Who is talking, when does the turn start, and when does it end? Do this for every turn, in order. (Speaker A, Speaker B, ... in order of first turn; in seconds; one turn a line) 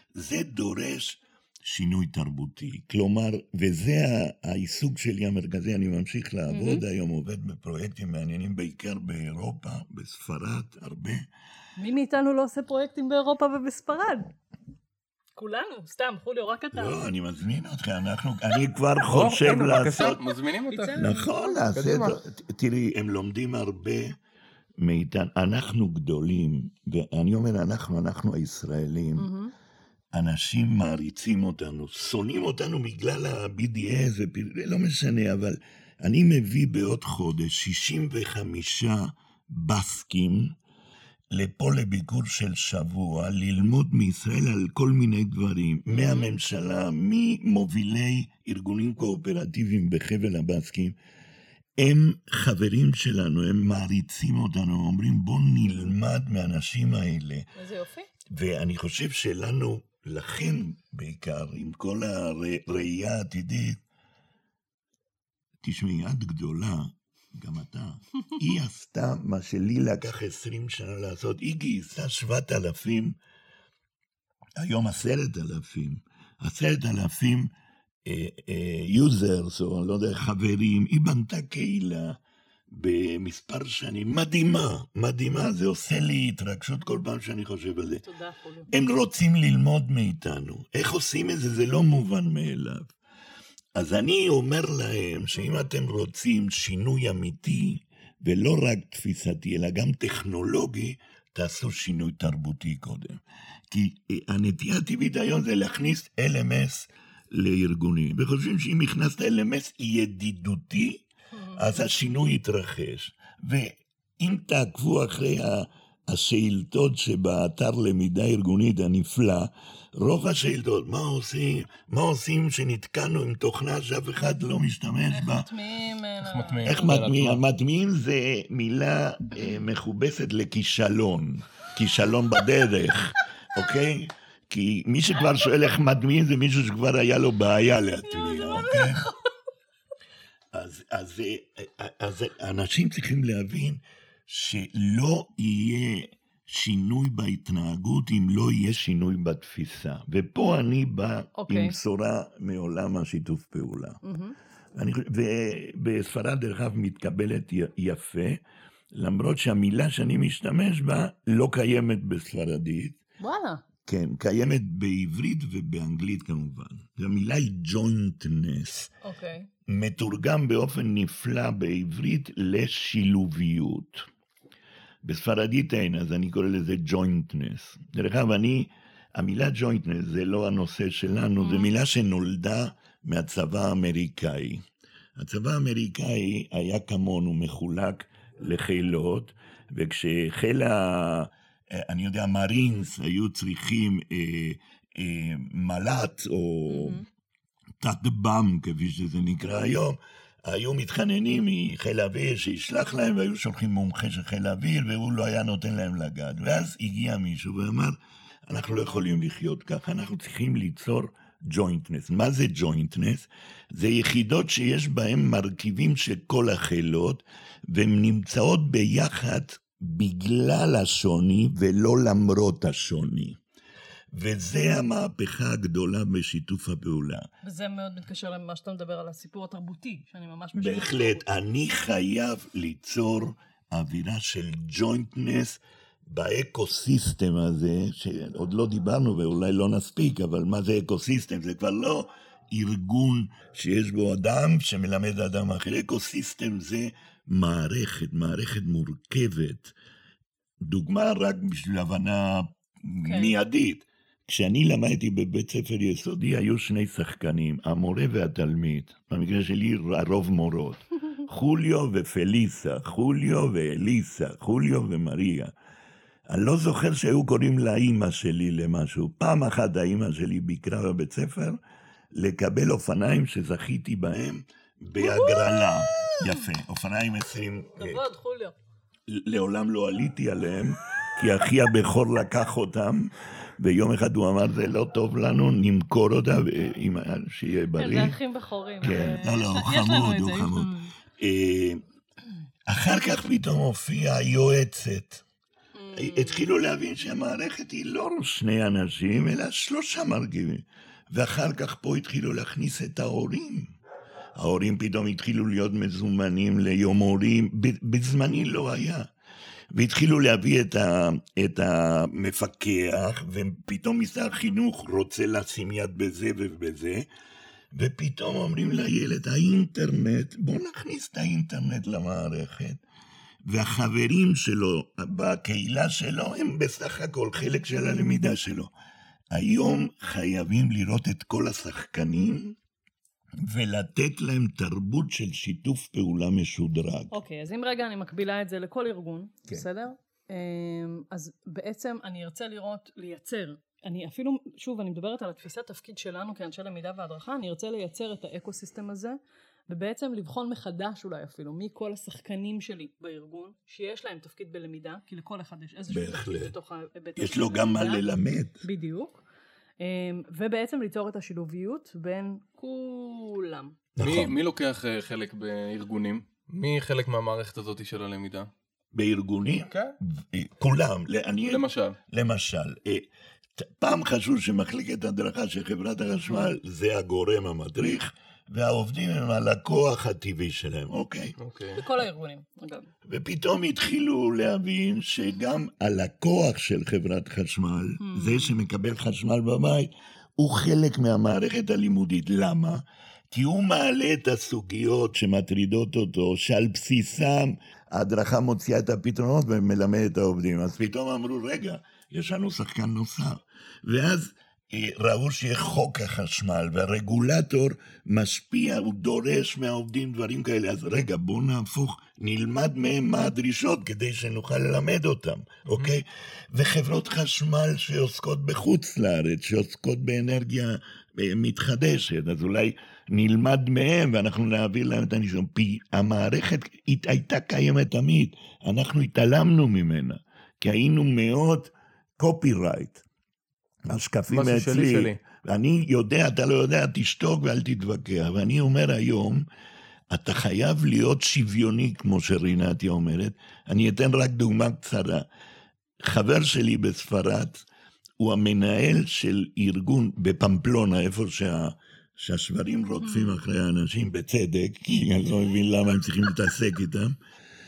Speaker A: 0.1-11.3
Speaker B: 6.5-6.8
Speaker B: 11.8-14.3
Speaker B: 15.4-17.0
Speaker A: 16.7-20.2
Speaker C: 19.1-21.0
Speaker B: 20.7-21.8
Speaker A: 20.9-24.2
Speaker C: 21.7-22.2
Speaker A: 24.8-29.3
Speaker B: 29.2-29.5
Speaker A: 30.1-40.5
Speaker A: 41.3-51.0
Speaker B: 45.9-46.3
Speaker A: 51.8-57.5
Speaker B: 57.5-58.1
Speaker A: 58.3-63.8
Speaker A: 65.6-73.2
Speaker A: 74.6-77.5
Speaker A: 78.0-88.0
Speaker B: 88.0-88.7
Speaker A: 88.7-92.9
Speaker A: 93.7-125.5
Speaker B: 125.1-126.9
Speaker C: 126.2-127.4
Speaker A: 126.6-139.1
Speaker B: 138.1-139.2
Speaker A: 140.5-154.0
Speaker B: 151.3-151.7
Speaker B: 154.0-154.3
Speaker A: 154.7-158.4
Speaker A: 158.9-163.0
Speaker B: 163.2-163.6
Speaker A: 163.8-168.9
Speaker B: 169.0-169.5
Speaker A: 169.7-174.1
Speaker A: 175.0-184.6
Speaker B: 181.4-181.7
Speaker A: 185.2-197.0
Speaker B: 196.7-197.0
Speaker A: 197.8-223.4
Speaker A: 224.1-227.3
Speaker B: 227.4-231.2
Speaker A: 230.6-249.7
Speaker A: 250.6-265.5
Speaker B: 253.0-253.3
Speaker A: 266.3-271.6
Speaker A: 272.1-278.0
Speaker B: 275.0-276.4
Speaker B: 277.8-278.5
Speaker A: 279.1-288.1
Speaker B: 287.8-290.9
Speaker A: 288.8-291.8
Speaker A: 292.7-295.2
Speaker B: 295.8-296.5
Speaker A: 295.9-303.7
Speaker A: 304.4-309.1
Speaker A: 309.7-317.1
Speaker A: 317.7-322.8
Speaker A: 323.4-328.7
Speaker A: 329.3-332.6
Speaker A: 333.4-337.2
Speaker B: 337.1-349.2
Speaker B: 349.7-358.1
Speaker A: 355.9-356.6
Speaker A: 357.2-358.6
Speaker B: 358.6-359.2
Speaker B: 359.8-363.8
Speaker A: 363.9-364.4
Speaker C: 364.0-368.5
Speaker A: 368.9-373.1
Speaker C: 369.7-369.9
Speaker C: 371.4-372.0
Speaker A: 373.6-381.4
Speaker C: 381.4-381.8
Speaker B: 381.7-382.9
Speaker A: 383.1-433.0
Speaker B: 388.0-388.5
Speaker A: 433.9-439.4
Speaker C: 434.3-435.2
Speaker A: 440.1-445.3
Speaker A: 446.0-447.6
Speaker A: 448.2-457.2
Speaker B: 453.0-453.4